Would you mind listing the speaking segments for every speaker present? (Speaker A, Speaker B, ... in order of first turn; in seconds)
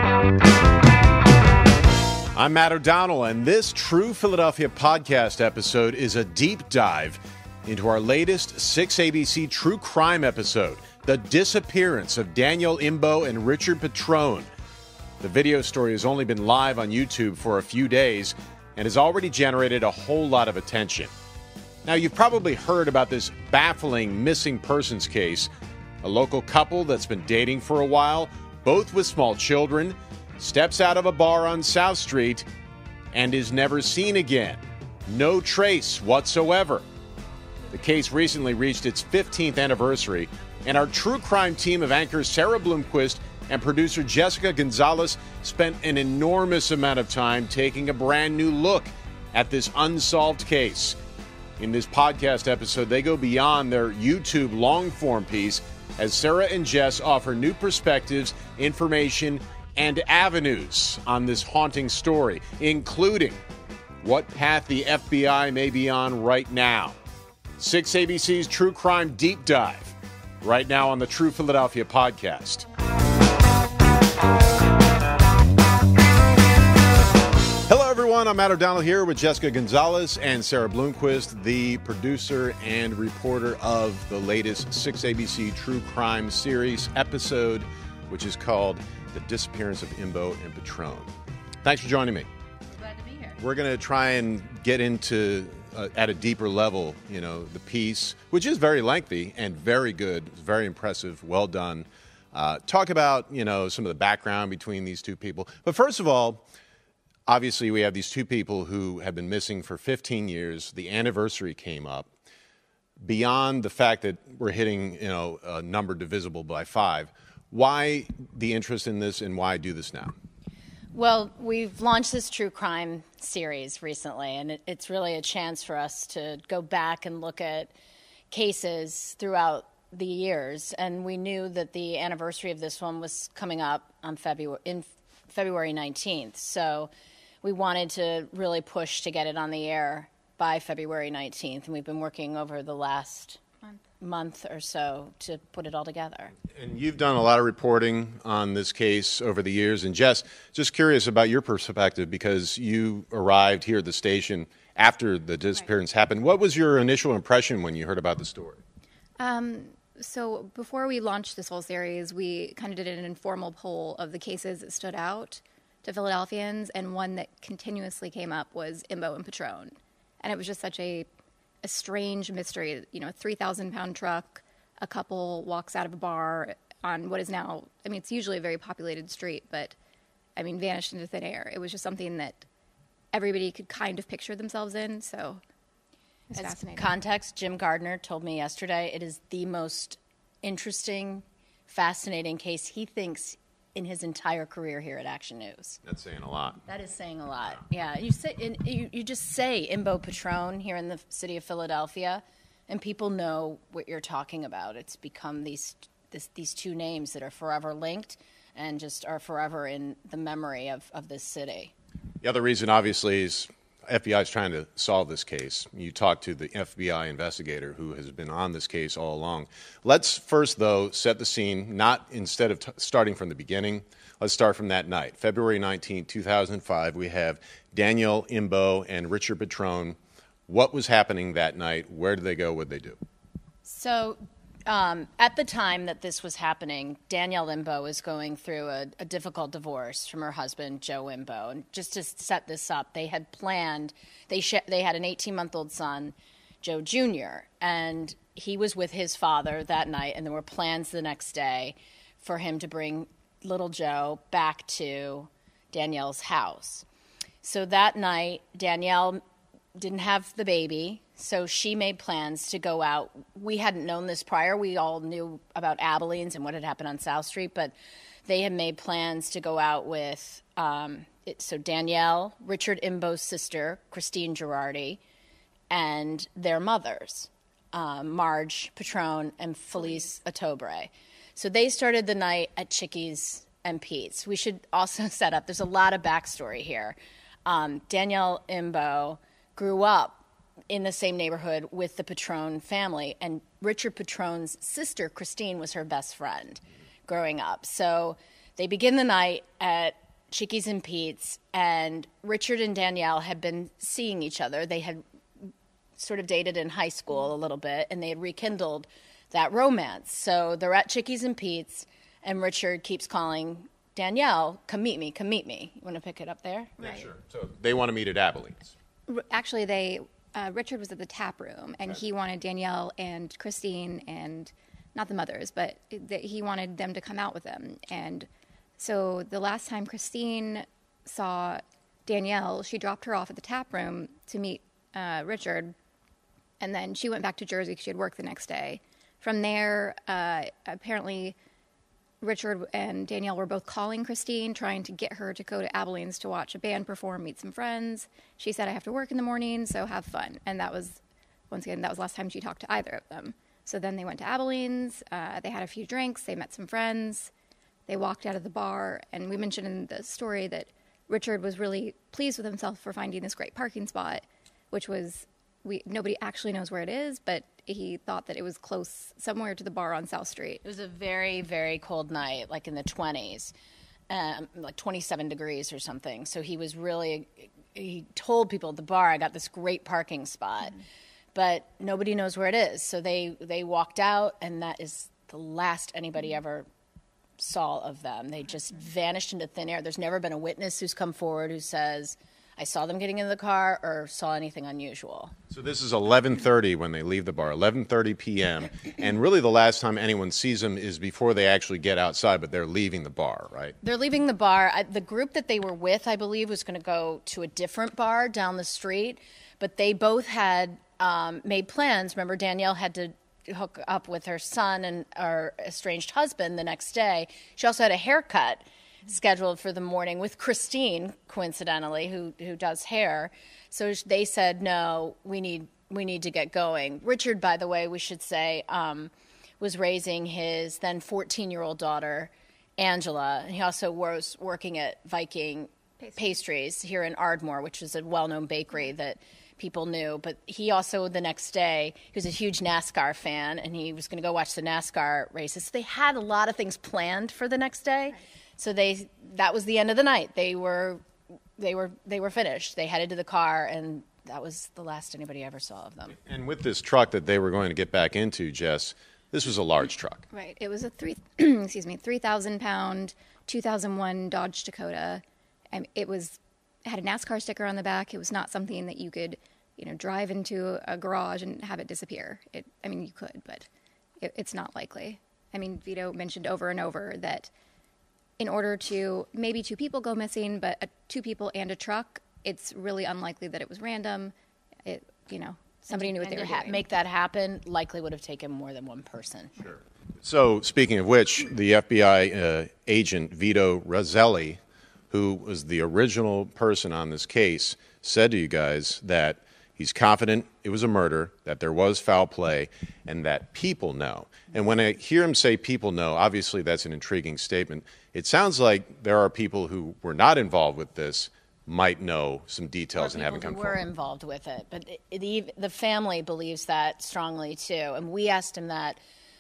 Speaker A: 2.3-14.5, 15.2-21.1, 21.9-25.5, 26.0-32.5, 33.1-36.8, 37.7-51.0, 51.6-63.4, 64.0-67.0, 67.6-72.7, 77.7-92.3, 93.4-106.4, 107.3-112.1, 113.0-120.2, 146.5-158.6, 195.8-196.6, 212.2-233.0, 316.8-318.8, 395.5-403.8, 456.2-460.2, 489.6-494.6, 495.1-513.9
Speaker B: 92.7-93.4, 120.9-127.7, 128.3-136.9, 137.4-143.4, 144.0-146.3, 186.3-195.8, 196.7-211.7, 233.7-256.9, 257.4-259.2, 259.8-267.7, 268.3-275.0, 275.7-316.8, 370.6-373.5, 374.1-380.8, 381.3-386.7, 387.4-395.3, 403.8-451.0, 451.6-456.2, 485.9-489.6, 513.0-519.0
Speaker C: 159.2-171.1, 171.6-179.8, 180.4-182.5, 183.1-185.4, 186.3-186.9, 319.1-335.8, 336.6-341.4, 342.2-357.3, 357.9-370.6, 460.3-473.7, 474.2-477.5, 478.4-484.3, 484.9-486.9